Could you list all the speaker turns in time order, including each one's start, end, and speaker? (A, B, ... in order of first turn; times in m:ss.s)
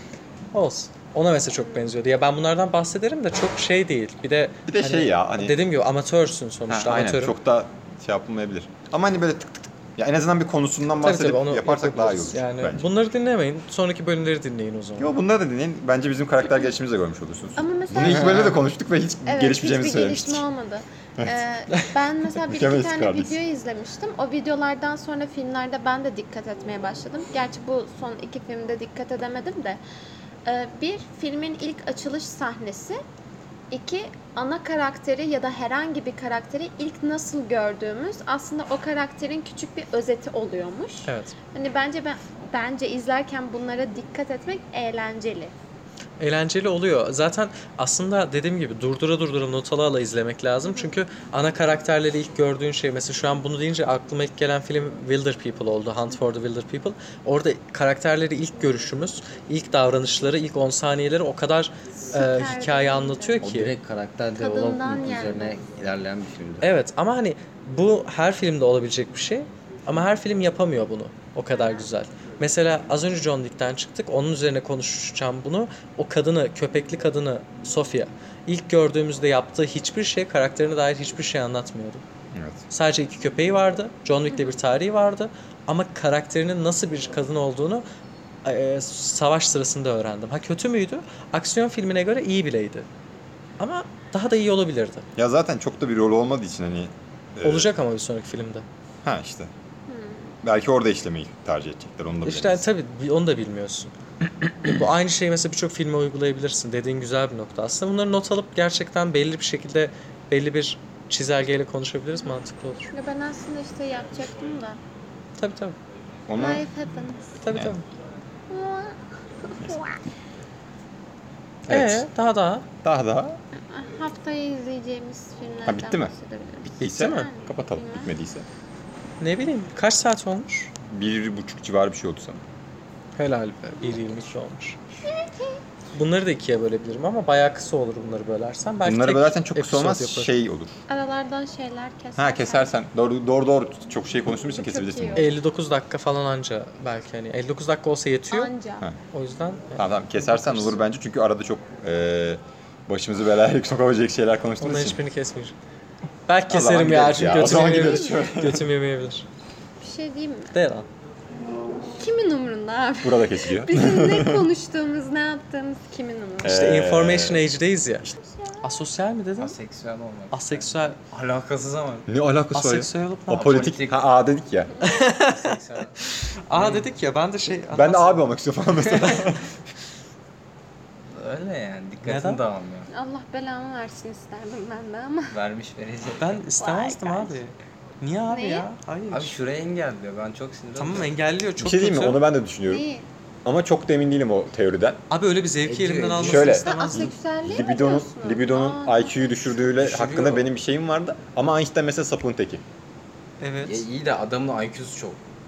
0:00.5-0:07.3 A
0:04.7-0:05.6 B
0:06.7-0:12.9 B
0:11.0-0:15.2 A
0:15.0-0:20.4 B
0:17.6-0:18.6 C
0:18.0-0:18.4 A
0:19.2-0:29.8 C
0:22.4-0:23.4 B
0:30.4-0:33.0 C
0:33.7-0:45.5 C
0:41.0-0:41.3 A
0:46.2-1:03.7 A
1:02.1-1:03.4 C
1:03.4-1:06.7 D
1:04.4-1:05.5 C
1:06.6-1:22.0 A
1:11.5-1:11.8 C
1:22.3-1:22.6 B
1:22.7-1:27.8 A
1:28.4-1:32.9 A
1:33.6-1:35.1 A
1:35.2-1:37.7 B
1:37.4-1:38.6 A
1:39.0-1:39.5 B
1:39.9-1:40.3 C
1:40.4-1:42.7 B
1:42.2-1:43.9 A
1:44.6-1:52.9 A
1:52.9-1:54.8 C
1:55.4-1:55.8 A
1:56.3-1:56.6 B
1:56.4-1:57.3 C
1:57.4-1:57.8 A
1:57.5-1:57.8 B
1:58.5-1:59.0 C
1:59.5-2:00.0 C
2:01.7-2:02.1 B
2:01.7-2:02.6 A
2:02.8-2:03.4 B
2:03.5-2:08.1 C
2:05.6-2:06.1 B
2:06.6-2:08.4 B
2:06.8-2:07.3 A
2:09.2-2:10.7 A
2:10.8-2:12.4 B
2:13.2-2:14.8 A
2:15.0-2:15.6 C
2:15.9-2:20.3 A
2:18.8-2:20.7 B
2:20.9-2:22.7 C
2:22.2-2:25.3 B
2:24.5-2:25.3 C
2:25.2-2:28.5 A
2:28.3-2:28.9 C
2:29.1-2:30.8 A
2:29.8-2:35.0 B
2:34.6-2:35.5 A
2:36.3-2:39.2 A
2:36.5-2:38.7 B
2:37.4-2:38.4 C
2:39.8-2:40.5 C
2:40.5-2:40.9 A
2:42.0-2:46.6 C
2:43.0-2:44.5 B
2:46.4-2:47.4 B
2:46.4-2:48.0 A
2:48.6-2:49.5 A
2:49.4-2:52.1 D
2:50.3-2:51.0 A
2:52.1-2:54.8 B
2:52.5-2:53.7 A
2:53.4-2:54.0 D
2:54.8-2:55.4 A
2:55.0-2:55.9 D
2:56.5-2:58.2 A
2:56.5-2:56.9 D
2:57.7-2:59.5 B
3:01.1-3:02.9 D
3:02.0-3:02.4 A
3:02.9-3:05.3 C
3:05.3-3:06.4 D
3:06.2-3:09.3 A
3:06.6-3:07.4 C
3:08.3-3:08.7 C
3:09.1-3:11.1 D
3:10.8-3:12.2 A
3:11.6-3:12.8 B
3:12.7-3:13.1 C
3:13.4-3:15.0 B
3:15.1-3:17.1 A
3:15.6-3:16.6 D
3:16.2-3:22.6 B
3:16.6-3:19.3 C
3:19.7-3:20.5 D
3:23.4-3:23.8 A
3:23.6-3:25.2 D